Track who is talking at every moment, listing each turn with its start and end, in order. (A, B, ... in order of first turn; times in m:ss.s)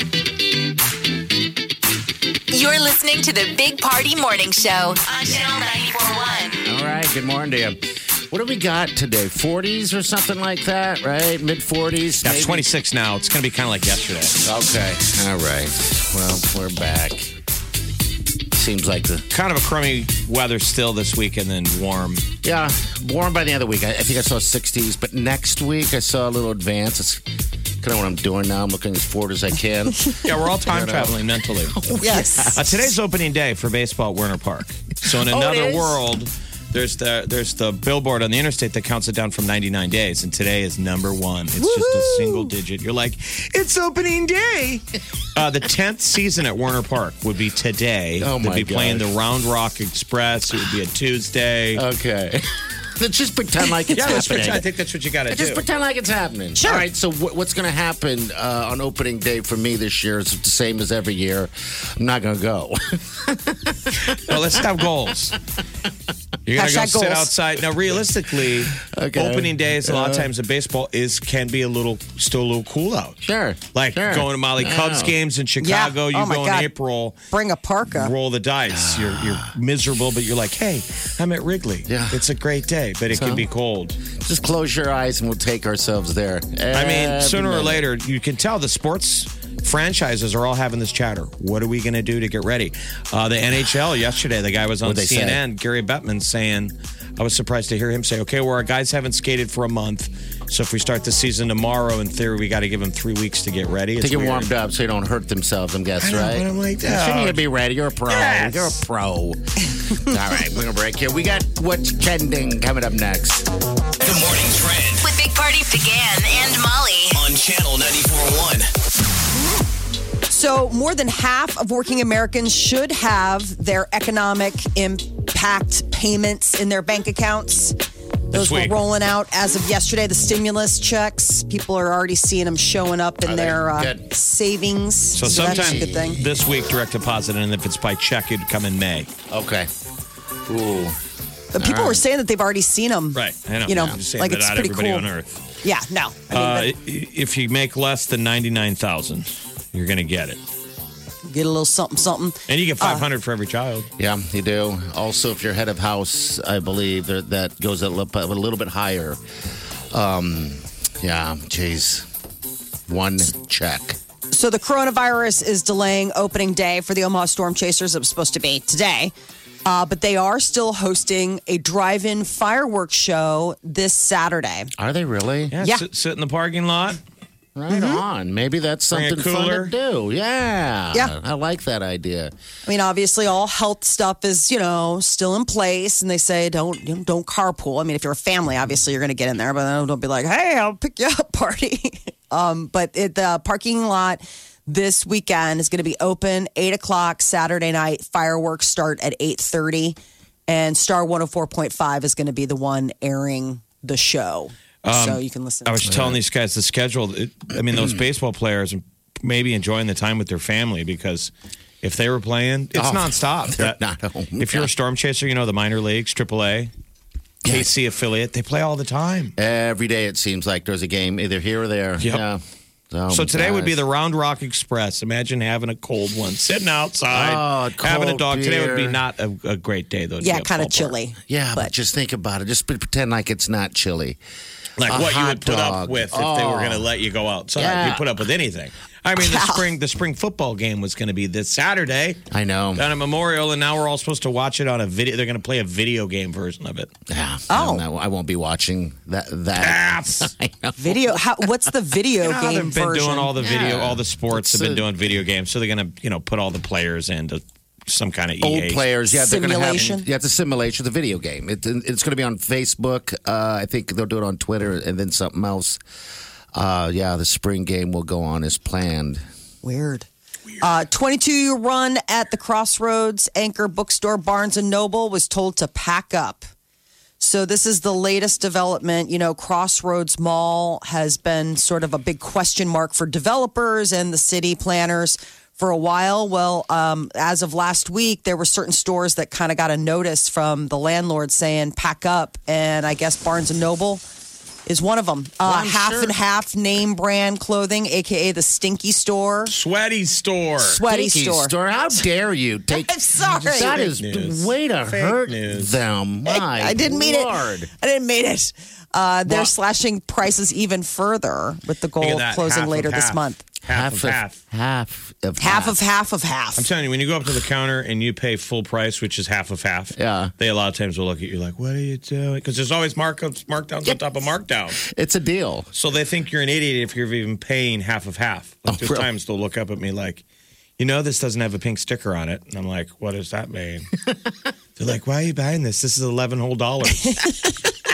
0:02.5-0:06.6 A
0:06.6-0:12.7 B
0:12.2-0:14.4 C
0:14.4-0:17.4 B
0:18.5-0:19.3 B
0:19.3-0:22.2 C
0:22.4-0:27.2 B
0:27.8-0:32.9 B
0:30.2-0:32.0 C
0:32.0-0:32.6 D
0:32.6-0:51.8 C
0:35.2-0:36.0 B
0:41.6-0:42.5 D
0:48.2-0:49.1 B
0:51.8-0:54.7 B
0:53.9-0:55.6 C
0:55.3-1:04.6 B
0:56.6-0:56.9 D
1:04.1-1:05.4 C
1:06.5-1:13.2 C
1:06.6-1:07.3 D
1:08.8-1:10.3 B
1:13.2-1:15.1 B
1:13.7-1:17.2 C
1:15.6-1:16.7 D
1:17.3-1:18.1 D
1:17.9-1:24.0 C
1:18.7-1:19.5 B
1:21.9-1:22.2 B
1:23.1-1:23.5 B
1:24.1-1:27.8 B
1:26.7-1:44.5 C
1:34.8-1:35.4 B
1:44.0-1:53.5 B
1:46.0-1:47.4 C
1:48.1-1:48.8 C
1:54.0-1:55.1 E
1:55.0-1:57.2 A
1:57.1-1:58.7 E
2:00.3-2:07.8 D
2:08.3-2:08.8 C
2:08.3-2:16.2 D
2:13.2-2:14.0 B
2:15.2-2:19.1 C
2:15.2-2:16.4 B
2:19.3-2:19.7 B
2:20.5-2:21.0 B
2:21.5-2:25.1 D
2:23.1-2:25.4 C
2:25.6-2:26.7 D
2:26.3-2:30.4 C
2:31.3-2:33.0 D
2:32.5-2:33.9 C
2:34.0-2:39.2 B
2:39.9-2:42.1 B
2:42.9-2:44.0 B
2:44.3-2:49.1 D
2:49.6-2:54.7 D
2:54.8-2:55.6 B
2:55.5-2:57.0 C
2:57.6-3:02.3 B
2:57.7-2:58.0 D
2:58.9-2:59.7 C
3:02.7-3:20.0 D
3:20.5-3:25.8 D
3:24.8-3:31.3 C
3:25.8-3:26.2 B
3:31.8-3:33.8 C
3:32.8-3:34.7 B
3:34.4-3:36.7 C
3:37.4-3:37.7 B
3:37.5-3:39.3 C
3:39.4-3:43.8 B
3:43.1-3:51.0 C
3:47.1-3:49.0 B
3:50.2-3:51.7 D
3:51.3-3:54.2 B
3:54.8-4:02.2 C
3:54.8-3:56.9 B
3:57.6-3:58.1 B
3:59.2-3:59.6 D
4:02.3-4:02.8 B
4:02.8-4:06.9 C
4:07.1-4:11.2 B
4:07.5-4:07.8 D
4:09.6-4:10.3 C
4:10.8-4:13.3 D
4:12.2-4:18.8 C
4:13.4-4:14.9 B
4:18.4-4:25.8 B
4:19.1-4:20.1 D
4:26.5-4:29.2 B
4:29.6-4:30.1 D
4:30.6-4:36.4 D
4:37.2-4:54.0 D
4:54.7-4:59.5 D
4:55.4-4:56.2 B
4:59.5-5:00.8 C
5:00.6-5:01.5 D
5:00.8-5:07.7 B
5:02.7-5:03.9 D
5:04.0-5:05.8 C
5:06.3-5:13.4 D
5:12.0-5:14.4 C
5:13.6-5:15.8 B
5:15.4-5:16.7 D
5:16.6-5:24.8 C
5:20.0-5:20.3 B
5:24.8-5:25.7 B
5:25.7-5:30.2 C
5:28.7-5:29.1 B
5:30.8-5:33.9 C
5:34.8-5:37.2 C
5:36.9-5:37.7 D